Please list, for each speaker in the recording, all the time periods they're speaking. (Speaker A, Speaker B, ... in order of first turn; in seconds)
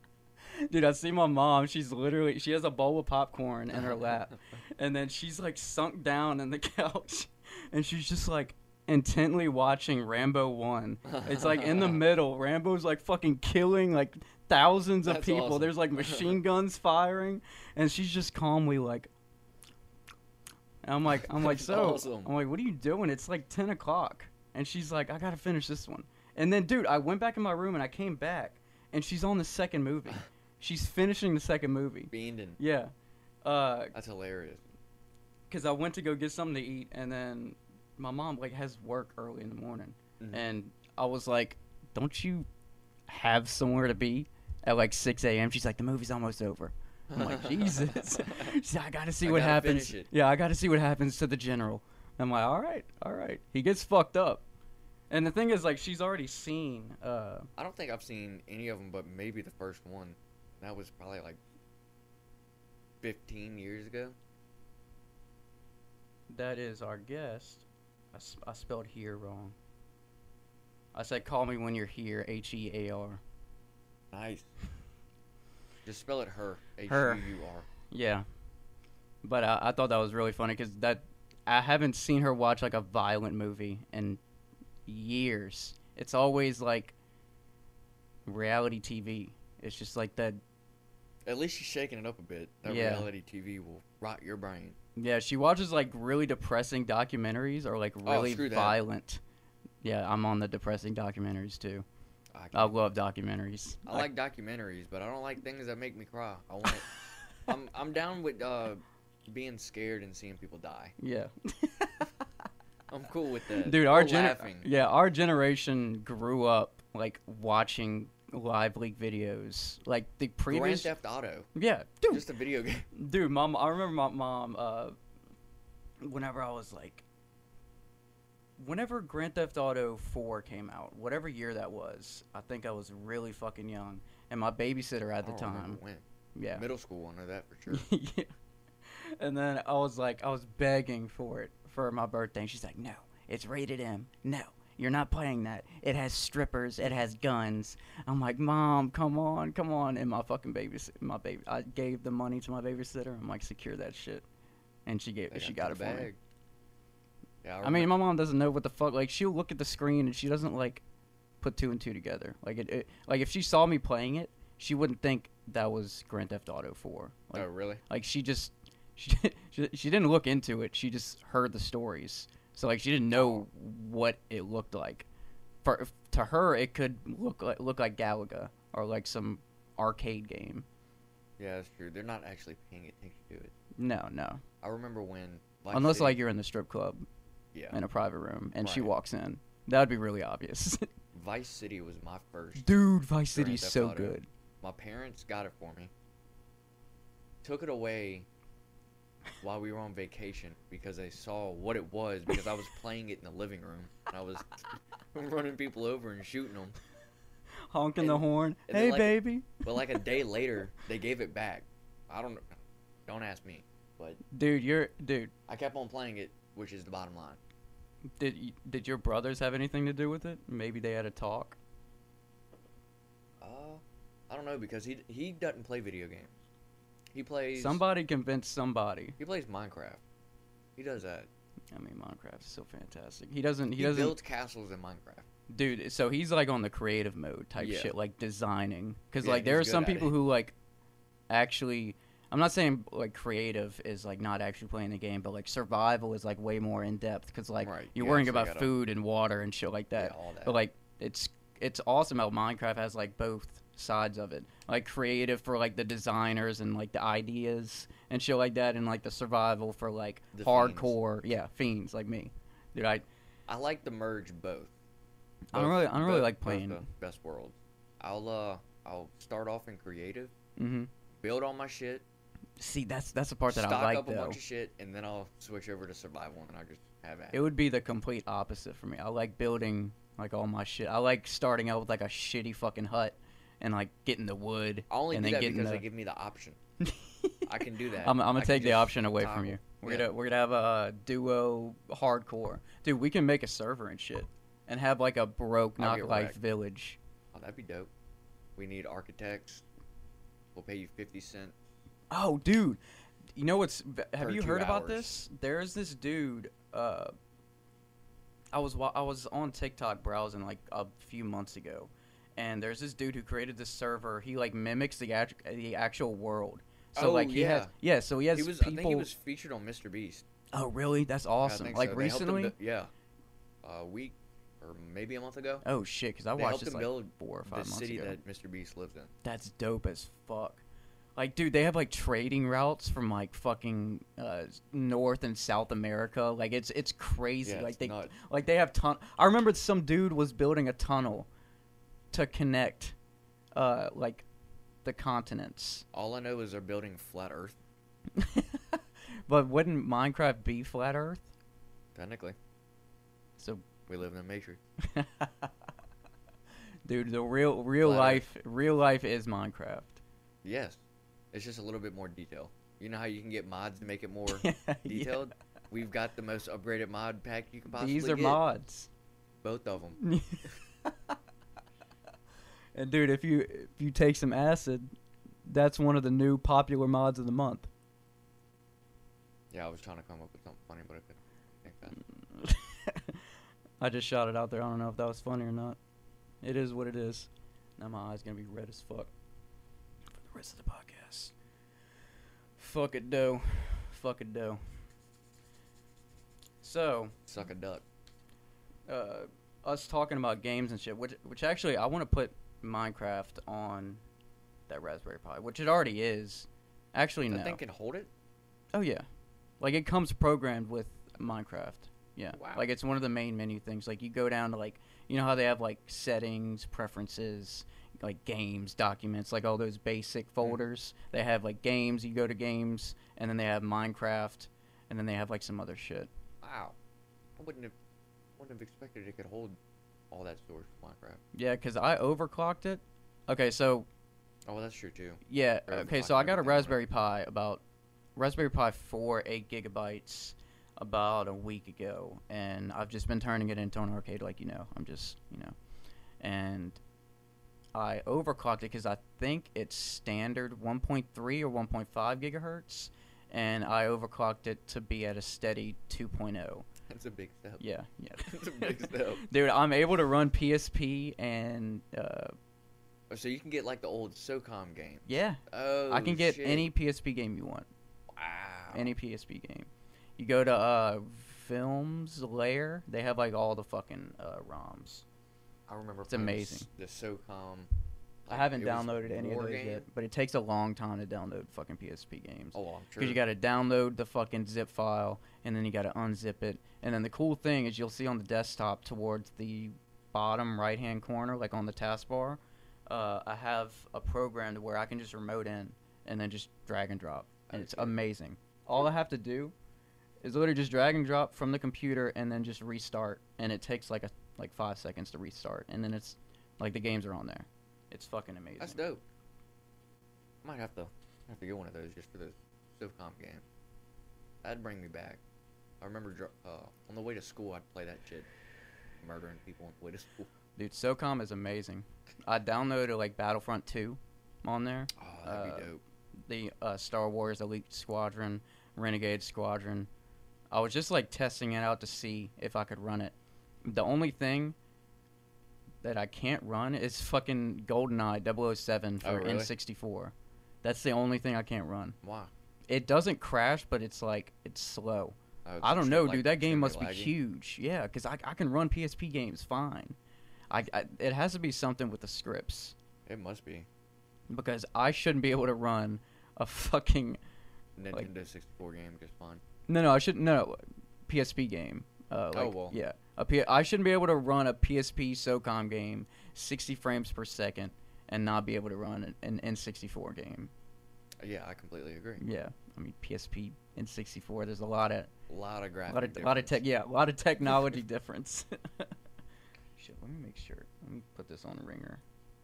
Speaker A: 0.6-19.1, 20.8-32.9, 33.4-33.9, 35.5-42.5, 43.1-54.4, 55.1-57.5, 66.3-69.5, 70.9-73.2, 76.9-77.2, 77.9-78.2, 79.2-84.2, 84.8-86.9, 88.2-90.4, 92.6-93.1, 95.0-99.2, 99.8-101.8, 102.5-104.1, 111.0-112.1, 113.6-120.9, 121.5-122.2, 122.9-125.0, 126.0-127.0, 128.6-135.8, 136.3-136.7, 137.7-138.3, 138.9-154.2, 154.8-156.1, 157.6-160.8, 161.4-175.1, 175.6-180.7, 183.8-184.4, 185.7-187.1, 187.7-190.8, 192.6-194.3, 207.7-209.6, 214.3-215.3, 218.2-221.6, 227.6-229.2, 231.7-234.2, 235.5-240.5, 241.3-263.0, 265.5-266.9, 270.6-270.9, 272.6-274.4, 277.3-285.9, 286.8-287.4, 288.0-297.0, 302.1-302.8, 303.3-307.1, 308.5-319.1, 320.5-322.5, 325.6-328.2, 329.2-330.6, 331.1-341.3, 342.1-342.9, 343.5-344.2, 344.8-345.8, 348.2-351.3, 353.4-353.6, 354.9-355.5, 356.9-360.0, 364.3-365.3, 367.7-368.9, 370.0-370.9, 372.7-374.9, 375.5-377.7, 382.3-383.2, 383.8-385.8, 386.4-389.1, 390.1-391.3, 392.6-394.6, 396.6-397.1, 398.9-404.0, 404.7-407.6, 408.7-409.1, 409.6-426.1, 431.3-433.9, 435.3-437.6, 438.1-445.5, 446.2-446.8, 447.7-456.7, 457.6-462.3, 465.1-467.7, 468.7-475.0, 476.1-476.7, 478.3-499.5, 500.2-508.8, 520.5-525.7, 526.2-529.9, 530.5-534.5, 535.8-542.0, 542.7-550.0, 550.5-552.7, 554.3-557.2, 559.7-570.5, 572.2-575.1, 575.9-578.9, 579.8-582.0
Speaker B: 3.7-4.2, 11.0-12.0, 15.0-16.4, 21.1-22.3, 32.1-32.6, 33.9-34.6, 40.2-40.4, 47.1-48.5, 49.2-50.1, 57.6-61.4, 63.0-64.2, 74.1-74.5, 75.8-77.7, 91.2-94.8, 98.0-98.8, 102.3-102.8, 103.8-106.9, 107.4-110.9, 112.9-114.7, 120.5-121.5, 122.1-122.9, 135.2-137.9, 155.3-156.2, 157.4-157.9, 167.3-167.8, 173.1-173.4, 181.4-183.5, 184.6-186.2, 187.5-187.8, 188.6-188.9, 191.1-192.7, 193.3-195.9, 197.4-198.3, 199.4-204.6, 205.1-206.7, 208.0-214.2, 215.5-217.4, 223.4-226.3, 227.1-227.8, 229.2-230.0, 230.8-231.3, 233.8-235.2, 237.6-237.9, 239.2-240.1, 247.6-248.7, 249.9-250.6, 260.3-261.0, 263.5-264.7, 265.5-270.3, 271.1-272.0, 273.5-277.4, 284.9-286.6, 287.4-290.1, 295.8-296.4, 297.3-297.9, 298.6-299.6, 300.5-301.6, 304.2-305.1, 316.9-317.7, 318.3-320.2, 321.4-322.9, 323.6-325.6, 326.4-329.1, 337.4-338.1, 345.9-347.6, 351.9-352.4, 353.9-354.6, 357.8-358.2, 360.4-360.8, 361.3-368.4, 369.4-370.0, 379.5-382.0, 397.3-397.8, 407.3-408.1, 412.3-412.7, 426.4-426.7, 427.4-427.7, 428.4-429.6, 430.1-431.2, 434.4-436.8, 456.9-457.6, 458.2-459.2, 463.1-466.7, 468.1-468.9, 475.7-477.7, 478.2-479.8, 482.5-483.2, 497.5-497.9, 508.6-509.0, 510.4-513.4, 514.4-515.2, 515.8-518.3, 519.0-520.3, 525.0-525.8, 539.0-539.5, 542.0-542.3, 545.4-547.1, 553.0-553.7, 557.8-559.4, 562.3-562.8, 571.2-572.2, 575.3-576.6